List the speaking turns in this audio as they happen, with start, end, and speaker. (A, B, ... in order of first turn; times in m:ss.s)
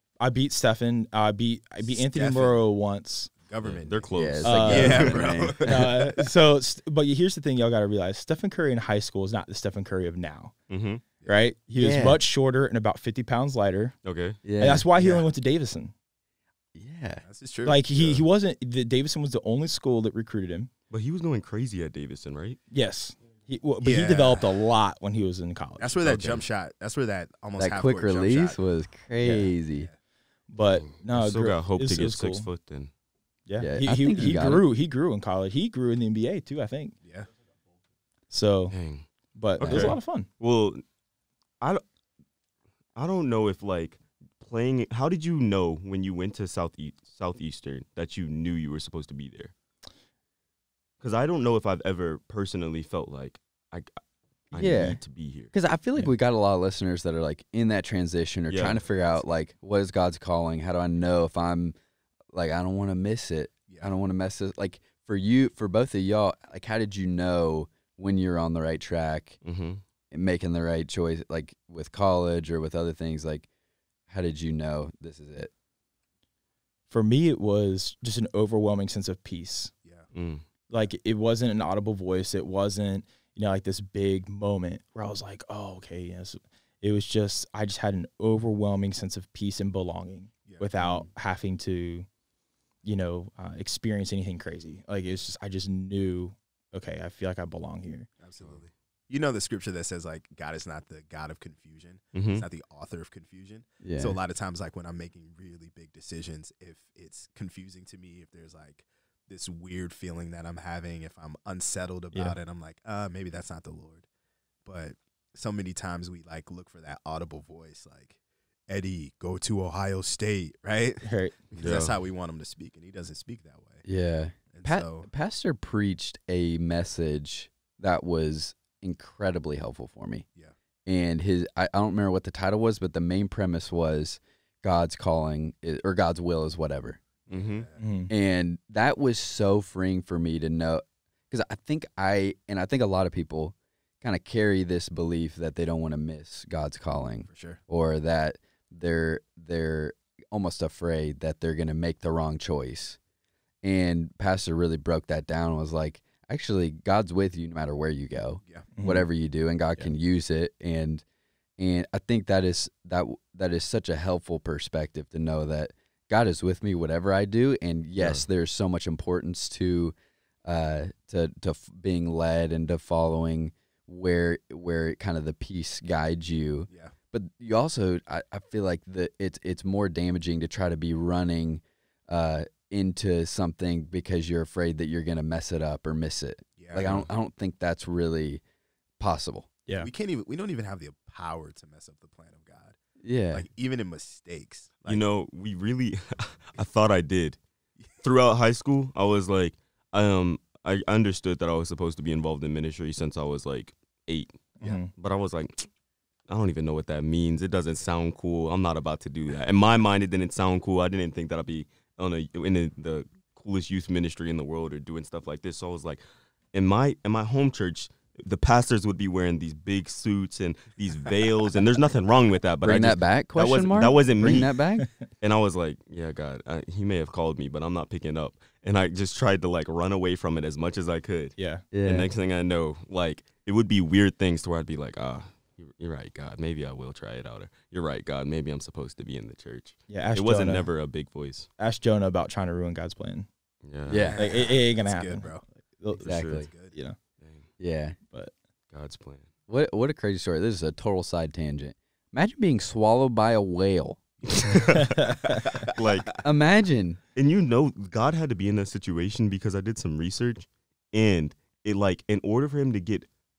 0:00.2-0:03.3 A
0:01.8-0:02.6 B
0:03.4-0:06.3 B
0:03.6-0:05.2 C
0:04.1-0:05.7 D
0:04.4-0:10.5 A
0:10.7-0:11.0 C
0:11.2-0:14.0 A
0:11.8-0:12.2 D
0:14.0-0:14.4 C
0:14.4-0:14.9 D
0:14.6-0:15.9 A
0:15.0-0:15.2 B
0:16.7-0:17.2 D
0:17.2-0:18.2 B
0:17.6-0:20.7 A
0:20.9-0:22.6 C
0:22.7-0:26.2 A
0:23.8-0:24.5 B
0:25.8-0:28.6 B
0:26.0-0:26.4 C
0:27.6-0:29.9 D
0:29.2-0:29.5 A
0:30.5-0:32.5 A
0:30.8-0:32.9 C
0:33.5-0:36.9 A
0:33.6-0:34.6 D
0:37.0-0:37.3 B
0:38.3-0:38.8 A
0:38.7-0:39.0 C
0:39.3-0:40.3 A
0:39.6-0:40.8 C
0:39.6-0:40.0 D
0:43.0-0:49.5 C
0:51.0-0:53.9 C
0:54.5-0:55.5 C
0:54.5-0:55.0 D
0:55.5-1:01.7 D
0:58.5-0:58.8 C
1:02.3-1:09.4 D
1:09.4-1:09.8 C
1:10.1-1:13.5 D
1:14.1-1:15.5 D
1:16.9-1:19.7 A
1:20.1-1:20.4 C
1:20.7-1:32.1 A
1:30.8-1:31.1 D
1:32.8-1:38.1 A
1:38.2-1:54.0 B
1:42.1-1:42.4 C
1:43.8-1:44.2 D
1:54.6-1:58.2 B
1:58.7-2:03.8 B
2:01.0-2:01.4 A
2:01.6-2:01.9 C
2:03.8-2:10.2 D
2:04.5-2:05.1 B
2:10.8-2:17.0 D
2:17.3-2:17.7 C
2:17.3-2:17.8 B
2:17.8-2:18.1 A
2:18.1-2:33.0 D
2:27.3-2:27.6 B
2:33.6-2:41.0 D
2:38.7-2:39.0 A
2:41.6-3:08.4 D
3:06.6-3:07.1 B
3:06.8-3:07.1 C
3:09.0-3:09.5 D
3:09.8-3:12.8 B
3:13.0-3:13.4 D
3:13.3-3:15.0 B
3:14.8-3:17.4 C
3:18.0-3:25.7 C
3:24.6-3:24.9 A
3:26.3-3:44.5 C
3:42.6-3:44.9 D
3:45.2-4:01.5 C
3:51.4-3:51.6 A
3:51.7-3:52.1 D
3:59.9-4:00.7 A
4:01.6-4:03.3 A
4:03.6-4:04.2 C
4:03.9-4:04.2 D
4:03.9-4:05.4 B
4:04.2-4:07.0 A
4:06.0-4:06.5 C
4:06.0-4:06.5 D
4:06.3-4:06.7 B
4:07.2-4:07.4 C
4:07.6-4:08.0 D
4:08.7-4:09.3 C
4:09.5-4:14.0 D
4:14.2-4:16.2 C
4:15.0-4:15.4 A
4:16.2-4:17.0 D
4:17.1-4:23.1 C